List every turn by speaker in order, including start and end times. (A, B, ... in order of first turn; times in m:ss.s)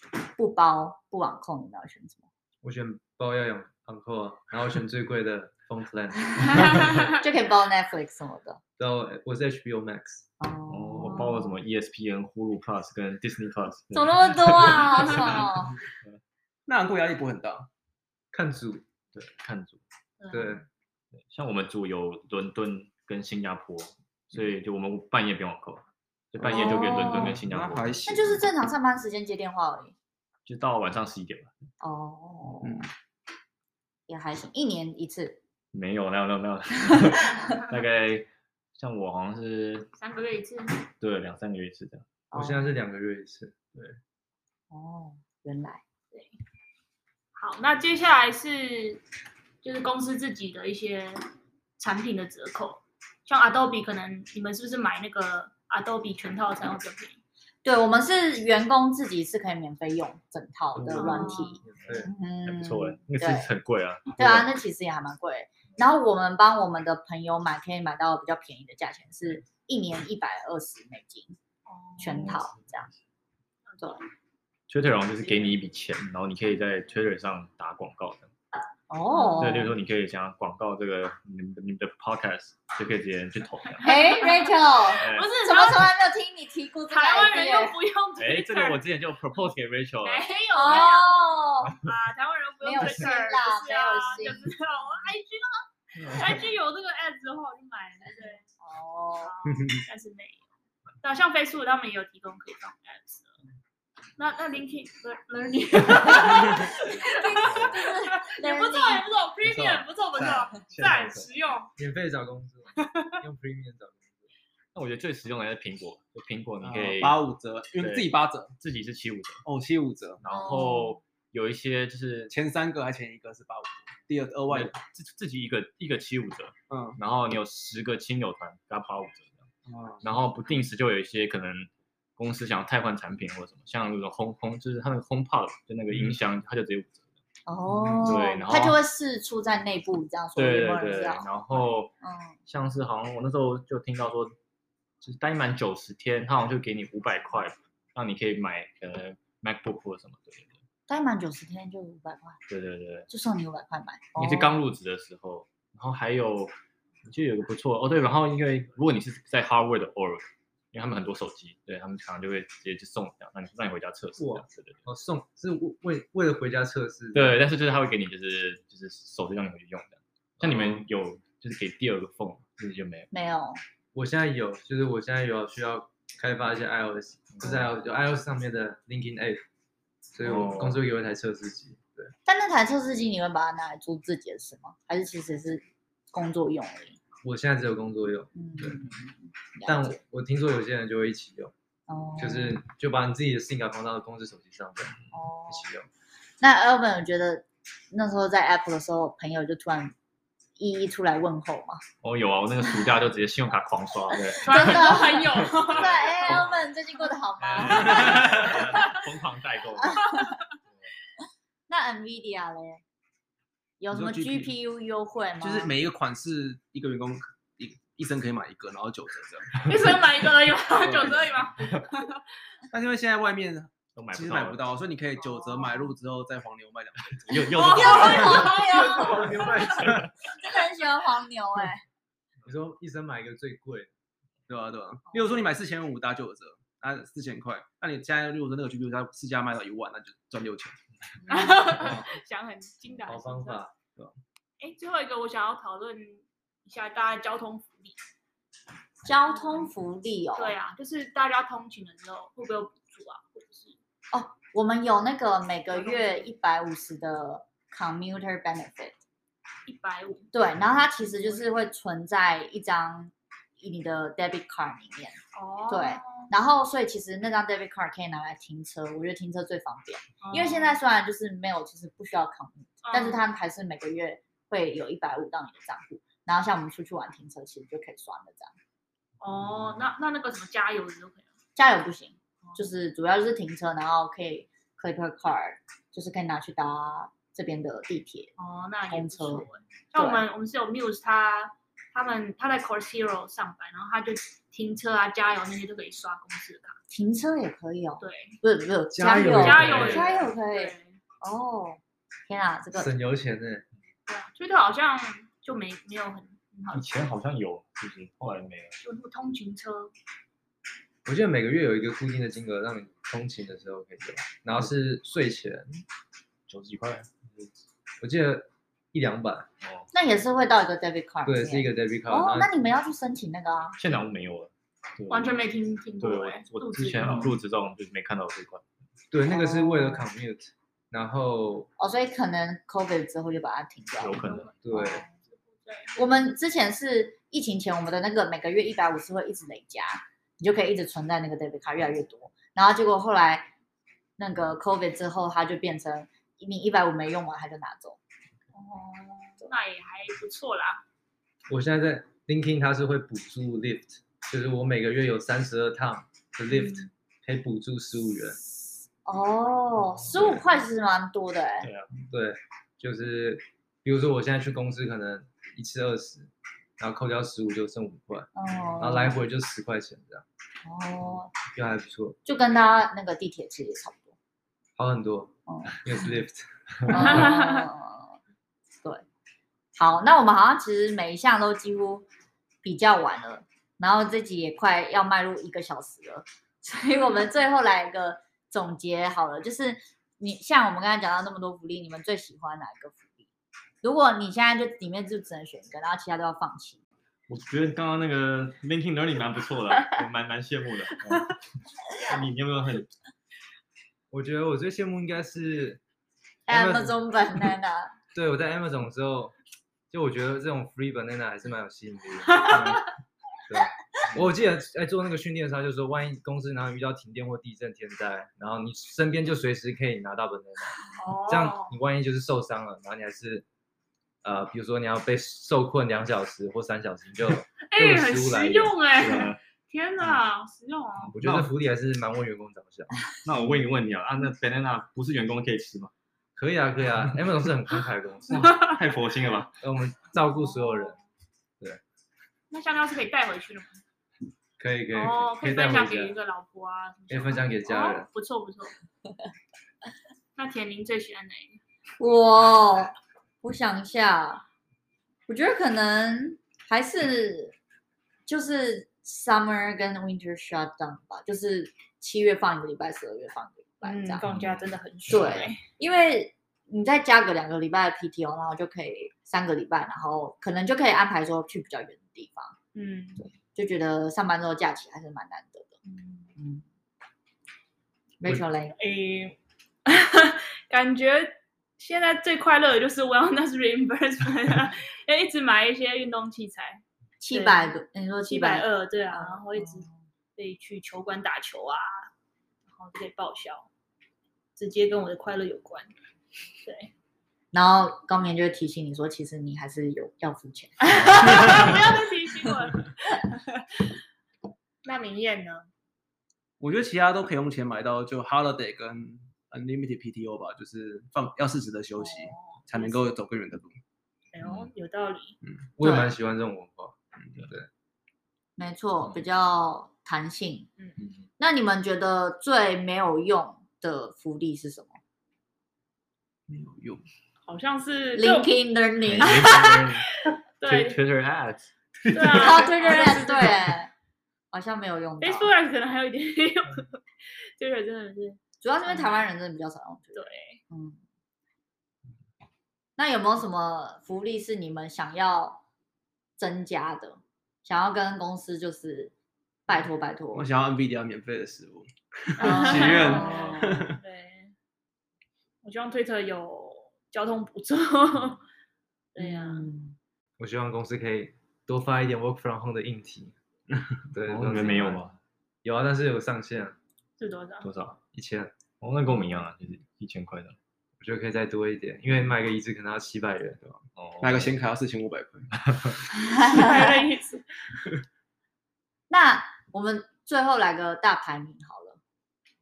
0:00.3-0:02.2 A
0:02.6-0:07.1 B
0:07.1-0:08.6 A
0:08.8-0:10.2 B
0:10.4-0:11.6 A
0:10.7-0:16.2 C
0:13.9-0:15.8 A
0:16.7-0:17.7 D
0:18.3-0:18.8 B
0:19.1-0:19.8 C
0:20.2-0:20.6 E
0:20.3-0:20.6 B
0:21.2-0:28.0 C
0:26.4-0:28.4 D
0:26.5-0:27.4 A
0:28.0-0:29.9 A
0:30.4-0:31.5 C
0:31.8-0:32.8 A
0:34.1-0:35.4 A
0:35.7-0:39.9 C
0:40.0-0:40.8 E
0:41.0-0:42.0 C
0:42.3-0:42.8 A
0:42.3-0:43.6 B
0:44.7-0:45.8 A
0:47.4-0:49.0 E
0:49.6-0:51.2 E
0:51.8-0:57.2 E
0:57.6-1:03.5 A
1:00.7-1:04.5 C
1:00.9-1:01.6 E
1:01.6-1:02.1 B
1:04.2-1:11.4 A
1:11.6-1:12.4 E
1:12.0-1:12.9 A
1:12.0-1:12.9 C
1:13.7-1:14.0 E
1:14.7-1:18.3 C
1:18.9-1:19.7 A
1:19.1-1:19.6 E
1:19.4-1:23.9 C
1:23.7-1:25.9 E
1:23.8-1:27.8 A
1:25.0-1:25.3 C
1:26.9-1:28.8 E
1:28.2-1:30.3 C
1:30.0-1:38.4 E
1:30.5-1:31.8 A
1:32.6-1:34.5 A
1:36.0-1:36.4 C
1:38.6-1:39.3 A
1:39.2-1:40.5 E
1:41.0-1:43.3 E
1:44.2-1:51.7 E
1:46.1-1:49.1 A
1:49.4-1:51.3 D
1:51.8-1:54.3 B
1:52.8-1:53.1 E
1:54.7-1:59.4 C
1:56.6-1:58.5 D
1:59.4-2:00.2 D
2:00.2-2:02.3 C
2:00.3-2:01.0 A
2:02.3-2:04.8 D
2:04.5-2:09.4 C
2:06.7-2:07.0 D
2:09.7-2:10.1 D
2:10.0-2:17.0 C
2:17.5-2:22.4 A
2:17.7-2:18.2 D
2:18.0-2:18.8 C
2:20.4-2:21.9 C
2:22.5-2:24.3 C
2:25.0-2:30.6 C
2:30.9-2:32.4 A
2:32.5-2:33.1 C
2:33.1-2:34.6 A
2:34.2-2:36.5 C
2:37.0-2:44.8 C
2:44.2-2:47.5 B
2:47.1-2:53.1 C
2:50.4-2:50.8 B
2:53.1-2:53.6 A
2:53.9-2:59.4 B
2:57.4-2:57.6 C
3:00.1-3:02.1 B
3:00.2-3:00.8 C
3:02.2-3:07.0 A
3:07.2-3:08.8 B
3:08.3-3:10.0 A
3:09.6-3:11.5 B
3:11.9-3:12.6 A
3:12.2-3:14.9 B
3:15.1-3:15.7 A
3:15.5-3:15.9 B
3:16.4-3:19.9 A
3:20.6-3:21.8 A
3:22.0-3:26.7 C
3:24.1-3:28.6 A
3:24.4-3:26.4 E
3:27.4-3:30.1 C
3:29.8-3:30.3 A
3:30.0-3:30.4 E
3:31.7-3:32.8 A
3:33.8-3:35.7 A
3:33.9-3:34.5 D
3:35.4-3:39.7 D
3:39.6-3:42.2 E
3:40.8-3:41.3 D
3:42.7-3:47.8 D
3:43.9-3:44.6 C
3:45.2-3:45.9 A
3:47.1-3:48.6 C
3:47.3-3:49.8 E
3:47.7-3:49.6 A
3:48.7-3:50.1 D
3:48.7-3:50.0 B
3:50.2-3:51.8 A
3:52.4-3:53.9 B
3:54.5-4:00.8 D
3:55.1-3:55.5 A
4:01.2-4:01.9 A
4:01.3-4:03.6 E
4:03.0-4:03.8 B
4:04.6-4:08.0 E
4:09.0-4:10.5 A
4:09.2-4:09.7 E
4:10.3-4:13.8 E
4:14.1-4:19.0 A
4:15.7-4:16.2 E
4:19.6-4:20.3 E
4:20.3-4:38.5 A
4:21.0-4:21.4 E
4:25.3-4:26.3 E
4:30.2-4:30.8 E
4:32.8-4:33.2 E
4:39.2-4:41.3 E
4:41.6-4:48.3 A
4:42.4-4:42.7 E
4:48.4-4:56.8 E
4:48.9-4:50.2 A
4:56.9-5:02.9 A
4:58.0-4:58.4 E
4:58.9-5:00.1 B
4:59.0-5:01.0 E
4:59.6-5:00.1 C
5:02.7-5:03.6 B
5:04.1-5:06.9 E
5:06.7-5:08.8 C
5:08.8-5:09.9 E
5:11.0-5:15.8 B
5:16.5-5:17.5 C
5:18.0-5:19.5 B
5:19.9-5:23.8 A
5:21.2-5:22.5 B
5:23.8-5:25.4 C
5:25.1-5:27.3 E
5:26.0-5:28.6 C
5:27.0-5:27.3 B
5:29.1-5:31.7 B
5:29.2-5:30.1 A
5:31.8-5:34.2 A
5:34.0-5:34.5 C
5:34.2-5:36.1 E
5:34.6-5:35.0 B
5:34.7-5:35.0 A
5:36.0-5:43.5 A
5:44.2-5:48.0 A
5:48.5-5:50.8 E
5:51.5-5:58.4 B
5:56.5-5:56.8 E
5:59.0-6:01.7 A
6:00.0-6:00.4 C
6:01.6-6:01.9 C
6:02.0-6:10.2 B
6:08.3-6:09.2 A
6:10.6-6:11.3 A
6:11.5-6:12.2 B
6:12.2-6:14.1 A
6:14.8-6:17.3 B
6:15.5-6:15.9 A
6:16.9-6:18.2 A
6:16.9-6:17.7 E
6:19.7-6:22.0 A
6:22.6-6:33.2 A
6:33.8-6:36.8 A
6:37.3-6:42.9 C
6:44.1-6:45.8 B
6:46.5-6:47.9 A
6:46.5-6:47.0 B
6:48.1-6:49.3 B
6:49.9-6:52.9 B
6:52.3-6:52.8 E
6:53.5-7:03.4 B
7:00.8-7:01.8 E
7:04.2-7:08.7 B
7:07.6-7:11.2 E
7:09.0-7:09.4 C
7:11.1-7:11.5 C
7:11.2-7:12.9 B
7:13.2-7:15.9 C
7:16.4-7:18.6 B
7:18.3-7:19.5 C
7:18.3-7:18.8 E
7:19.0-7:19.4 D
7:19.6-7:21.0 B
7:20.3-7:21.0 E
7:22.5-7:23.8 E
7:24.6-7:26.1 B
7:24.9-7:28.8 E
7:27.1-7:28.1 B
7:30.4-7:31.6 E
7:32.0-7:34.4 A
7:35.3-7:37.6 A
7:38.2-7:44.2 A
7:43.8-7:45.6 E
7:44.2-7:44.6 C
7:45.1-7:52.6 A
7:52.7-7:53.3 E
7:53.2-7:55.7 A
7:55.8-7:56.3 E
7:56.4-7:56.6 A
7:58.2-7:58.7 A
7:58.7-8:07.7 E
8:07.2-8:10.0 A
8:08.3-8:12.1 E
8:12.7-8:13.7 E
8:14.6-8:15.9 E
8:16.6-8:16.9 E
8:17.5-8:21.7 A
8:20.8-8:23.7 E
8:21.3-8:21.7 C
8:24.8-8:25.7 E
8:26.6-8:33.8 D
8:32.0-8:33.1 E
8:34.3-8:35.4 E
8:34.4-8:34.7 C
8:35.8-8:37.7 B
8:35.8-8:36.1 A
8:38.6-8:40.7 A
8:41.4-8:45.0 A
8:46.5-8:47.0 D
8:47.5-8:48.6 E
8:48.1-8:49.8 A
8:49.0-8:50.0 C
8:49.2-8:51.0 E
8:50.6-8:51.7 C
8:52.0-8:52.4 D
8:52.1-8:53.6 E
8:52.3-8:53.9 A
8:54.5-8:55.5 A
8:55.2-8:59.2 E
8:58.6-9:01.0 A
9:00.1-9:00.6 E
9:03.0-9:05.6 A
9:06.4-9:09.1 A
9:09.7-9:10.5 A
9:10.3-9:14.0 D
9:12.4-9:14.5 E
9:12.4-9:13.8 A
9:15.6-9:18.4 E
9:19.1-9:19.7 E
9:19.2-9:20.0 A
9:20.4-9:23.3 B
9:24.1-9:25.0 B
9:24.2-9:25.2 C
9:25.6-9:26.8 B
9:27.2-9:27.7 E
9:27.6-9:28.0 C
9:28.1-9:28.5 B
9:28.8-9:30.6 C
9:31.0-9:33.6 B
9:34.0-9:34.5 C
9:34.2-9:35.5 D
9:36.2-9:37.0 A
9:36.4-9:37.4 E
9:39.1-9:42.0 A